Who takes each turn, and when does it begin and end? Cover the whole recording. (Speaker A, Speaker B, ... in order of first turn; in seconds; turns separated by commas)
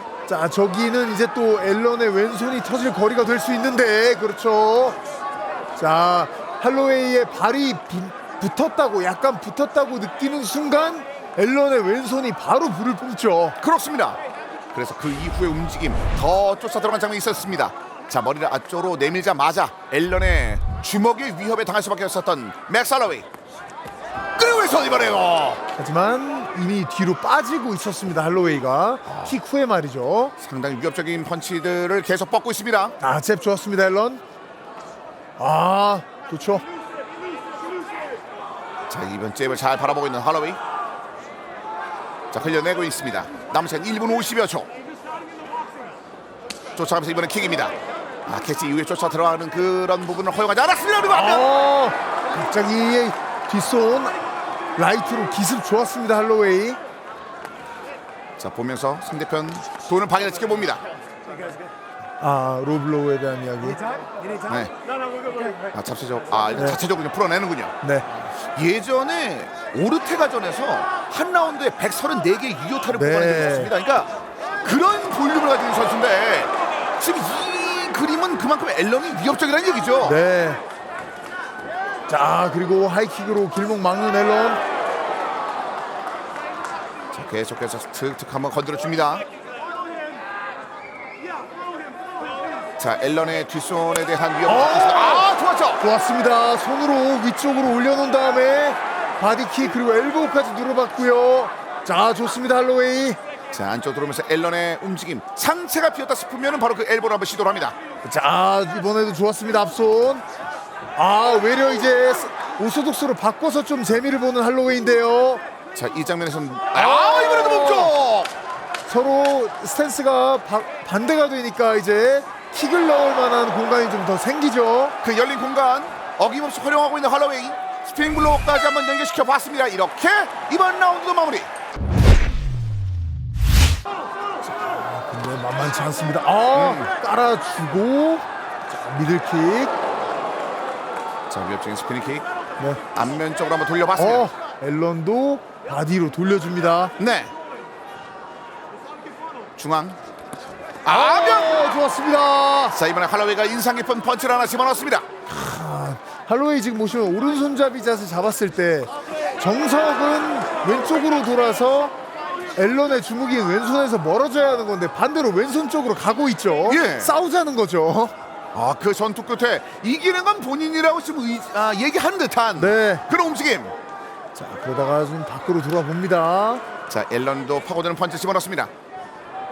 Speaker A: 0.3-5.0, Speaker A: 5.8-13.6, Speaker B: 13.6-14.2, Speaker B: 14.7-23.2, Speaker B: 24.4-25.6, Speaker A: 25.8-30.3, Speaker B: 29.1-29.4, Speaker B: 30.4-33.0, Speaker A: 33.0-34.2, Speaker A: 35.4-36.6, Speaker B: 38.9-40.6, Speaker B: 42.3-44.7, Speaker B: 46.7-47.7, Speaker B: 48.2-51.5, Speaker A: 51.1-54.2, Speaker A: 54.8-56.8, Speaker B: 58.4-60.8, Speaker A: 62.2-63.8, Speaker B: 64.5-64.7, Speaker B: 65.7-67.7, Speaker A: 67.8-68.1, Speaker B: 68.5-74.1, Speaker A: 72.9-73.7, Speaker B: 74.6-80.2, Speaker A: 80.0-80.6, Speaker A: 82.1-84.6, Speaker B: 87.1-89.2, Speaker B: 92.8-95.8, Speaker A: 94.4-95.3, Speaker A: 95.8-103.2, Speaker B: 103.5-107.7, Speaker A: 108.0-110.2, Speaker A: 111.0-115.4, Speaker B: 115.7-118.3, Speaker A: 116.7-117.9, Speaker A: 118.8-124.9, Speaker B: 125.0-131.5, Speaker A: 134.4-139.7, Speaker B: 136.5-136.9, Speaker B: 141.3-142.2, Speaker B: 142.9-144.3, Speaker A: 144.0-146.9, Speaker B: 147.0-147.3, Speaker B: 149.6-150.0, Speaker B: 150.8-151.8, Speaker A: 150.9-152.8, Speaker B: 152.7-155.1, Speaker A: 155.2-161.9, Speaker A: 162.5-168.1, Speaker B: 166.7-167.1, Speaker B: 168.5-173.7, Speaker A: 172.6-173.0, Speaker A: 174.3-176.6, Speaker B: 176.9-178.7